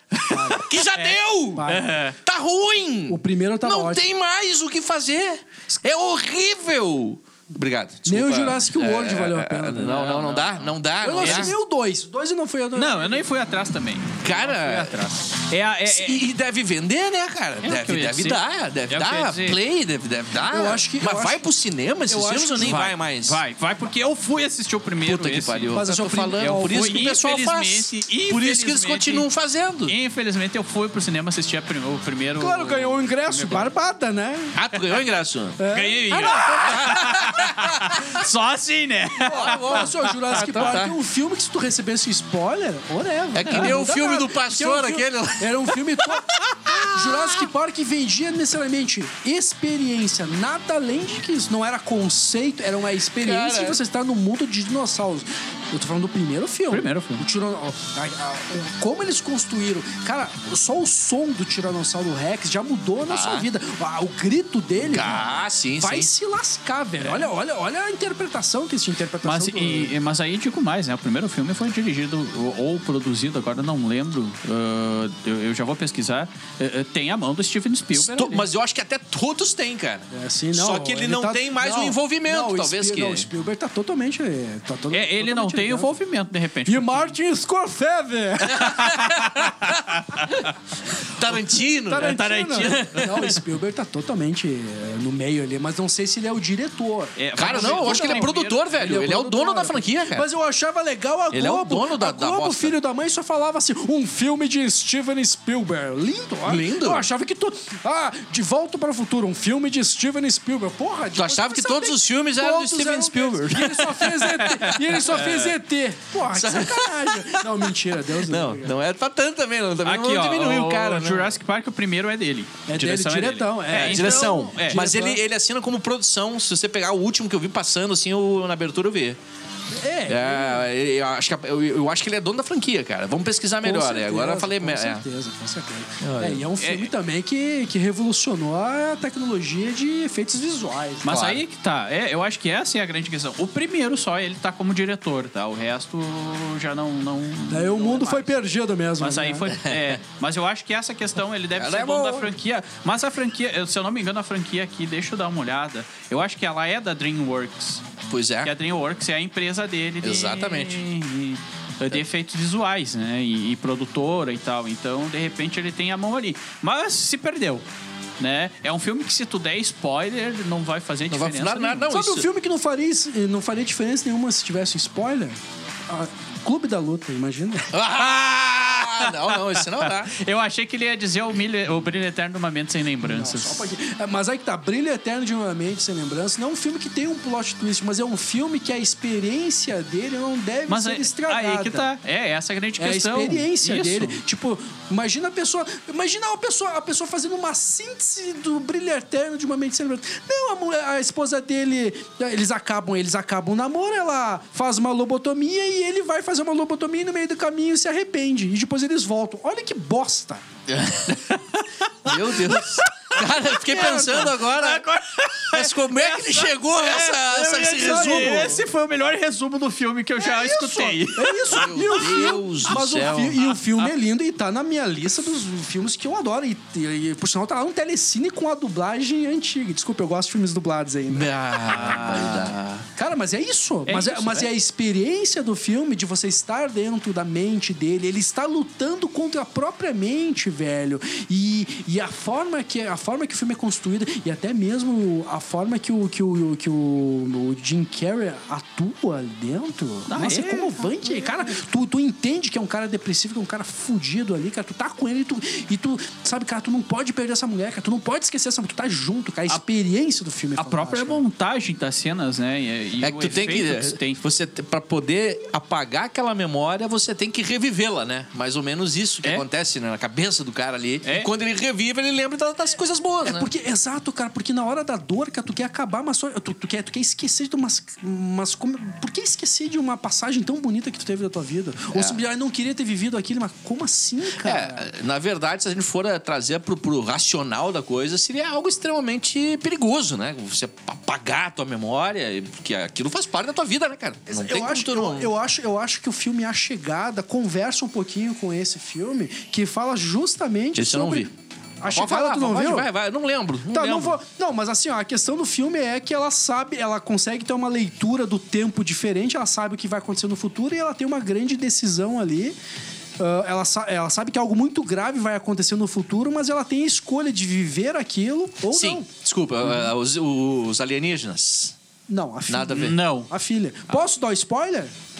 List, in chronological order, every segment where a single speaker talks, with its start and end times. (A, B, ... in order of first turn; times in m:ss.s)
0:00.1-0:02.2 A
0:00.3-0:00.6 B
0:00.5-0:01.7 C
0:01.5-0:01.9 B
0:02.2-0:11.5 C
0:03.1-0:04.0 B
0:08.0-0:10.1 B
0:09.8-0:11.5 A
0:11.0-0:13.2 B
0:12.7-0:16.2 A
0:14.2-0:15.0 C
0:15.8-0:23.4 C
0:17.6-0:19.6 A
0:20.5-0:21.4 B
0:22.1-0:22.8 B
0:22.6-0:25.8 A
0:25.0-0:29.9 C
0:25.7-0:27.0 B
0:26.4-0:29.3 A
0:29.8-0:33.7 A
0:32.4-0:34.6 B
0:34.5-0:38.2 C
0:35.6-0:36.4 B
0:35.7-0:40.8 A
0:39.2-1:05.2 B
0:39.3-0:40.9 C
0:43.3-0:47.4 C
0:53.2-0:53.8 C
0:56.7-0:57.2 A
1:03.1-1:03.5 C
1:04.8-1:06.1 C
1:05.8-1:09.9 B
1:09.2-1:18.4 A
1:17.9-1:23.3 C
1:20.1-1:25.9 B
1:24.9-1:27.1 A
1:26.6-1:28.9 B
1:28.5-1:30.5 A
1:28.5-1:29.8 C
1:31.0-1:33.4 C
1:31.8-1:58.7 B
1:31.9-1:33.3 A
1:37.2-1:38.6 A
1:37.4-1:40.2 C
1:41.3-1:42.7 C
1:46.4-1:47.0 C
1:51.2-1:54.5 C
1:54.4-1:55.5 A
1:56.3-1:57.4 C
1:58.2-2:01.3 C
1:59.8-2:04.8 A
2:02.7-2:05.2 B
2:03.8-2:09.2 C
2:09.7-2:10.7 B
2:10.1-2:15.0 C
2:13.6-2:21.2 B
2:16.0-2:16.4 C
2:16.6-2:16.9 A
2:21.0-2:28.4 A
2:21.0-2:21.4 C
2:27.5-2:29.5 B
2:29.0-2:37.8 A
2:29.5-2:30.0 C
2:31.6-2:32.3 C
2:38.1-2:38.5 C
2:38.4-2:47.6 A
2:40.0-2:40.8 C
2:48.2-2:51.9 A
2:51.1-2:52.2 C
2:51.9-2:57.7 B
2:57.7-3:00.1 C
2:59.0-3:03.6 A
3:03.0-3:11.9 B
3:10.7-3:14.2 A
3:12.8-3:30.4 B
3:30.7-3:31.4 C
3:31.2-3:42.3 A
3:32.0-3:34.8 C
3:33.7-3:34.3 B
3:35.5-3:38.6 C
3:37.8-3:38.6 B
3:40.2-3:51.8 B
3:41.4-3:43.4 C
3:43.0-3:43.9 A
3:51.1-3:52.6 C
3:51.6-3:52.8 A
3:52.9-4:21.2 B
3:53.8-3:54.5 A
4:10.1-4:10.9 A
4:20.6-4:24.2 A
4:23.0-4:33.5 C
4:33.2-4:44.9 B
4:41.9-4:42.2 C
4:44.4-4:55.3 C
4:54.3-5:02.9 B
5:00.8-5:01.3 C
5:01.9-5:04.2 C
5:03.7-5:12.6 B
5:13.2-5:19.1 B
5:18.7-5:21.7 C
5:22.1-5:24.9 B
5:22.5-5:23.0 C
5:22.8-5:23.3 A